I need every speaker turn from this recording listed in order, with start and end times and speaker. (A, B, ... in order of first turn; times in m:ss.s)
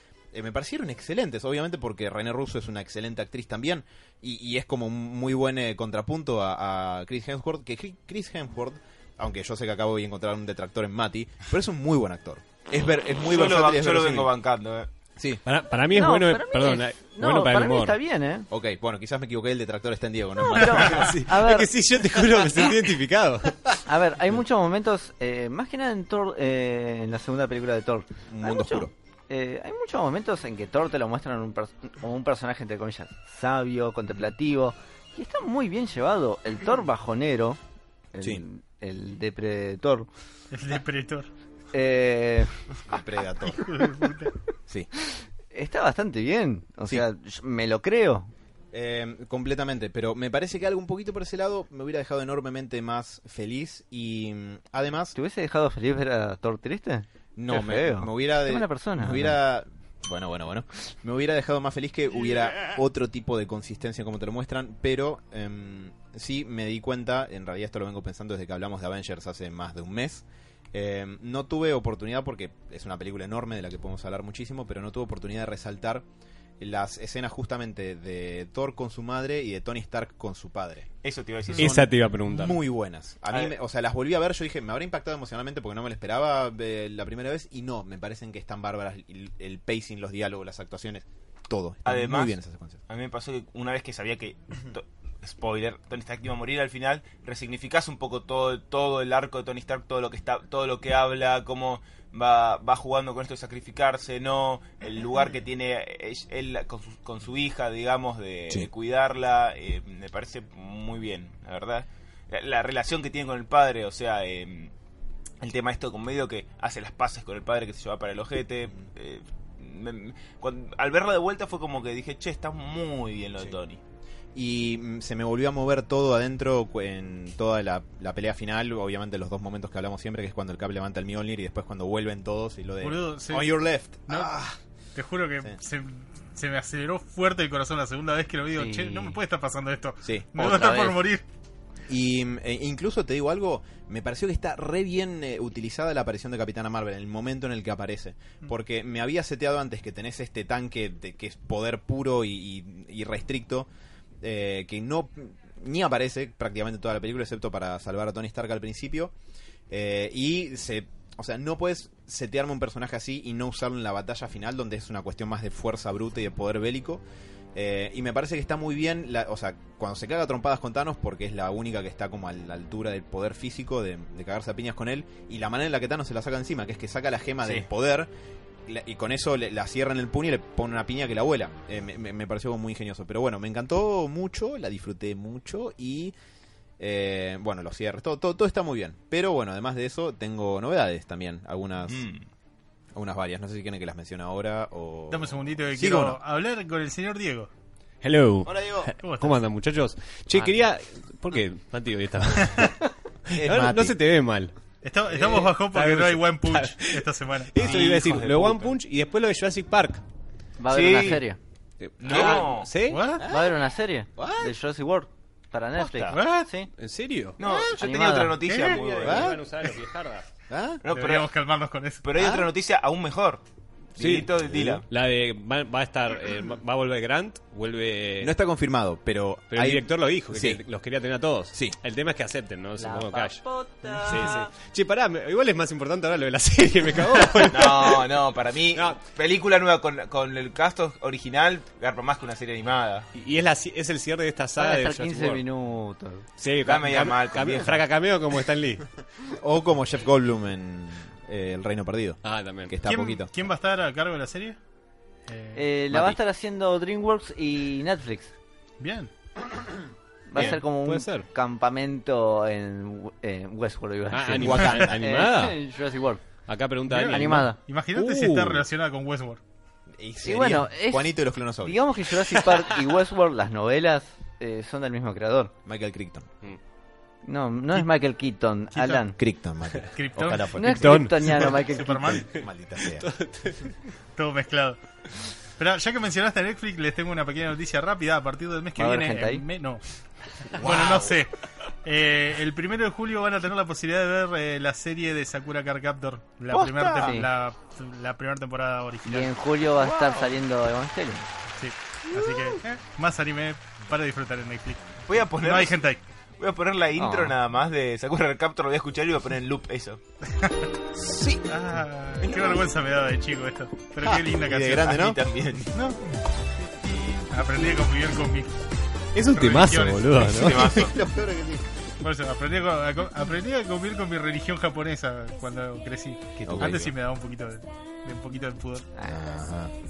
0:00.3-0:14.3 A
0:13.3-0:14.9 B
0:15.2-0:15.4 A
0:15.4-0:18.0 C
0:15.9-0:18.5 D
0:18.5-0:21.2 A
0:20.4-0:21.7 D
0:21.0-0:23.7 C
0:23.8-0:37.6 D
0:28.3-0:28.9 A
0:38.1-0:40.1 D
0:40.5-0:41.3 E
0:41.7-0:42.5 D
0:42.9-0:43.6 A
0:43.4-0:44.3 E
0:45.5-0:48.3 D
0:48.7-0:55.1 A
0:55.1-0:59.4 D
0:57.4-1:16.0 A
1:16.6-1:20.9 A
1:21.0-1:21.8 B
1:21.5-1:32.8 A
1:21.5-1:22.6 C
1:31.8-1:32.4 B
1:32.9-1:54.7 B
1:55.4-2:03.8 B
2:04.3-2:14.6 A
2:12.8-2:13.5 E
2:14.1-2:14.3 E
2:14.9-2:21.2 E
2:18.6-2:19.2 D
2:20.0-2:20.9 A
2:21.9-2:33.7 A
2:34.2-2:39.1 A
2:39.7-2:47.0 A
2:47.5-2:58.1 A
2:58.7-3:06.1 A
3:06.8-3:12.1 A
3:11.9-3:12.2 B
3:12.9-3:16.2 A
3:15.1-3:17.5 E
3:18.0-3:24.6 C
3:18.5-3:18.9 A
3:19.0-3:19.4 E
3:23.3-3:24.0 A
3:24.8-3:27.5 E
3:25.1-3:30.0 C
3:27.6-3:28.8 B
3:27.6-3:27.9 A
3:30.6-3:31.4 D
3:30.7-3:31.2 B
3:31.8-3:33.0 C
3:32.0-3:32.7 B
3:32.8-3:33.2 E
3:33.2-3:33.6 A
3:33.2-3:36.7 D
3:34.2-3:34.5 A
3:35.8-3:36.2 B
3:36.1-3:36.5 E
3:36.7-3:37.4 C
3:37.4-3:39.3 B
3:37.4-3:37.7 A
3:37.8-3:38.4 D
3:38.4-3:40.3 C
3:39.0-3:39.4 A
3:40.5-3:40.8 A
3:40.8-3:41.3 B
3:40.9-3:42.0 E
3:42.0-3:43.4 B
3:42.1-3:42.5 A
3:44.0-3:44.8 B
3:44.0-3:44.3 C
3:44.4-3:44.8 A
3:44.8-3:48.3 C
3:48.2-3:50.6 A
3:49.5-3:53.4 C
3:52.8-3:54.4 D
3:54.0-3:58.1 C
3:57.5-4:03.1 B
3:58.7-3:59.0 C
4:03.1-4:05.4 C
4:04.6-4:06.2 D
4:06.4-4:08.8 C
4:06.6-4:07.8 B
4:09.4-4:13.3 A
4:12.2-4:12.8 C
4:12.8-4:14.6 E
4:15.3-4:15.7 E
4:15.5-4:18.3 D
4:15.9-4:16.2 A
4:18.8-4:19.1 E
4:20.3-4:26.2 D
4:20.4-4:21.2 C
4:24.1-4:25.6 C
4:24.3-4:25.0 A
4:26.5-4:28.6 C
4:26.9-4:29.4 E
4:27.1-4:27.6 D
4:30.0-4:31.8 A
4:30.2-4:35.5 D
4:35.6-4:36.3 A
4:37.2-4:39.2 D
4:38.7-4:39.0 E
4:39.2-4:41.1 A
4:39.8-4:41.6 C
4:39.9-4:40.6 E
4:40.5-4:42.2 D
4:41.4-4:42.3 E
4:42.1-4:43.1 A
4:42.2-4:43.7 C
4:44.2-4:44.8 E
4:45.6-4:49.8 E
4:48.8-4:49.4 D
4:50.5-4:51.3 E
4:50.6-4:51.1 A
4:51.8-4:59.3 E
4:56.5-4:57.2 B
4:57.0-4:57.3 D
4:59.0-5:01.2 D
5:01.6-5:06.0 E
5:05.0-5:05.8 B
5:06.4-5:10.0 B
5:07.0-5:07.3 D
5:10.3-5:10.7 E
5:10.9-5:11.5 A
5:11.5-5:15.1 E
5:14.0-5:15.2 A
5:14.9-5:15.8 B
5:15.7-5:16.2 E
5:16.8-5:18.6 E
5:19.1-5:20.9 C
5:19.3-5:20.5 E
5:20.2-5:21.0 B
5:20.7-5:21.6 A
5:22.0-5:28.9 E
5:26.4-5:26.9 A
5:28.9-5:29.3 D
5:29.0-5:29.7 A